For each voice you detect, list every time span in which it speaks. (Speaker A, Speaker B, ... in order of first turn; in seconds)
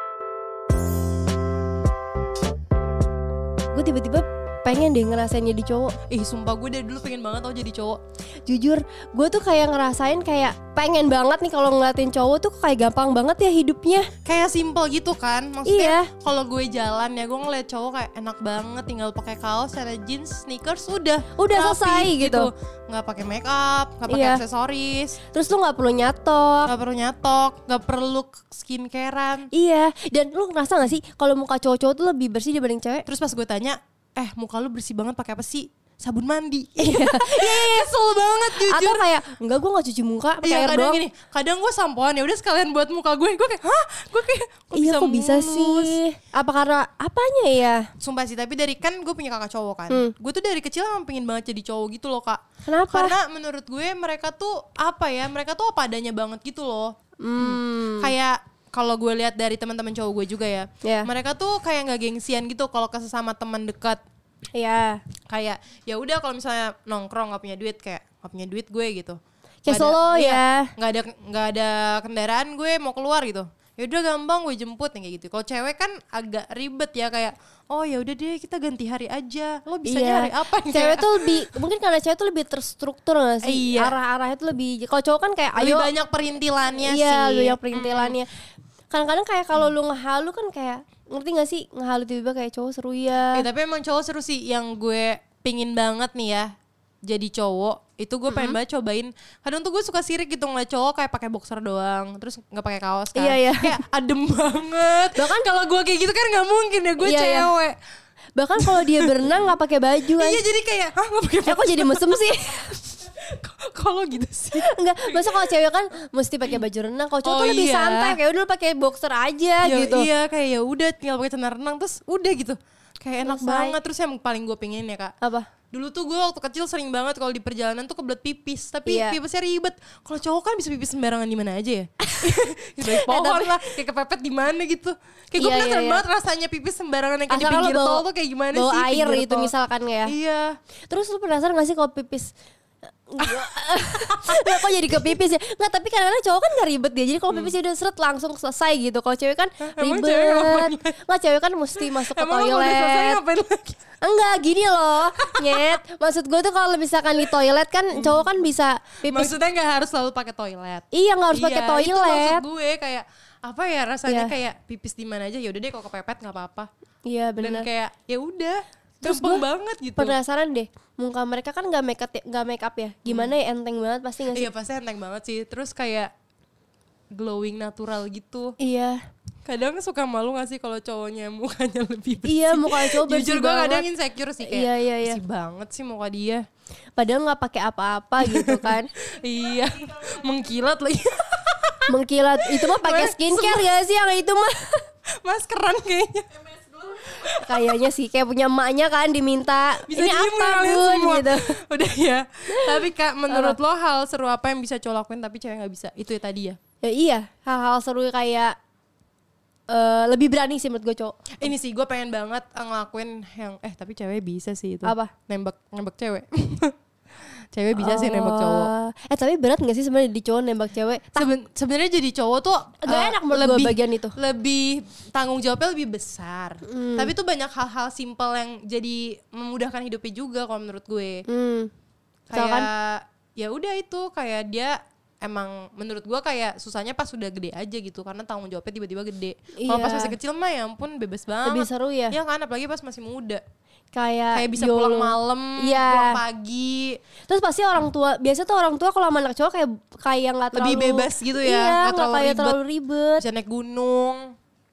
Speaker A: 3.7-6.0, 8.5-14.1, 15.7-16.1, 21.4-22.5, 24.1-24.4, 25.3-26.7, 29.5-33.0, 36.8-37.9, 38.5-41.0, 44.8-47.9, 52.7-53.1, 57.2-58.1, 60.8-61.1, 64.5-65.0, 69.7-70.7, 79.8-85.9, 86.8-88.3, 88.9-93.5, 98.3-98.6, 103.2-103.8, 105.2-105.5, 107.0-107.5, 108.4-110.4, 111.5-112.8, 114.6-120.1, 123.2-123.7, 125.2-125.5, 128.9-129.2, 132.0-133.6, 135.4-136.0, 137.3-140.1, 140.9-142.3, 143.1-153.2, 154.0-159.3, 160.9-162.4, 164.1-164.3, 167.1-167.7, 169.0-169.4, 170.0-174.5, 178.6-179.0, 182.2-183.8, 184.4-185.2, 187.0-188.9, 191.9-194.9, 197.4-201.6, 202.5-203.6, 206.8-208.6, 209.7-211.2, 214.8-215.1, 217.8-221.3, 222.8-224.2, 226.7-227.1, 231.3-231.7, 232.3-232.7, 239.6-240.2, 241.4-242.2, 243.9-246.2, 247.3-253.2
Speaker B: 6.1-8.0, 14.2-25.2, 26.7-29.5, 33.1-39.1, 40.4-46.0, 48.0-64.0, 65.3-81.3, 83.4-84.0, 85.6-88.2, 93.3-96.5, 97.0-107.8, 108.6-109.4, 110.2-115.6, 117.2-118.2, 119.6-125.1, 125.7-139.5, 140.1-140.6, 144.1-145.0, 149.6-151.0, 151.8-153.8, 155.2-155.7, 157.9-158.2, 159.1-166.7, 167.4-170.2, 173.1-173.3, 174.3-176.1, 177.1-178.6, 179.4-186.4, 188.2-191.9, 192.6-193.7, 195.2-197.8, 199.9-206.6, 211.4-216.8, 217.5-218.7, 221.2-231.2, 232.3-243.4, 244.3-247.0, 250.5-252.6, 253.2-254.3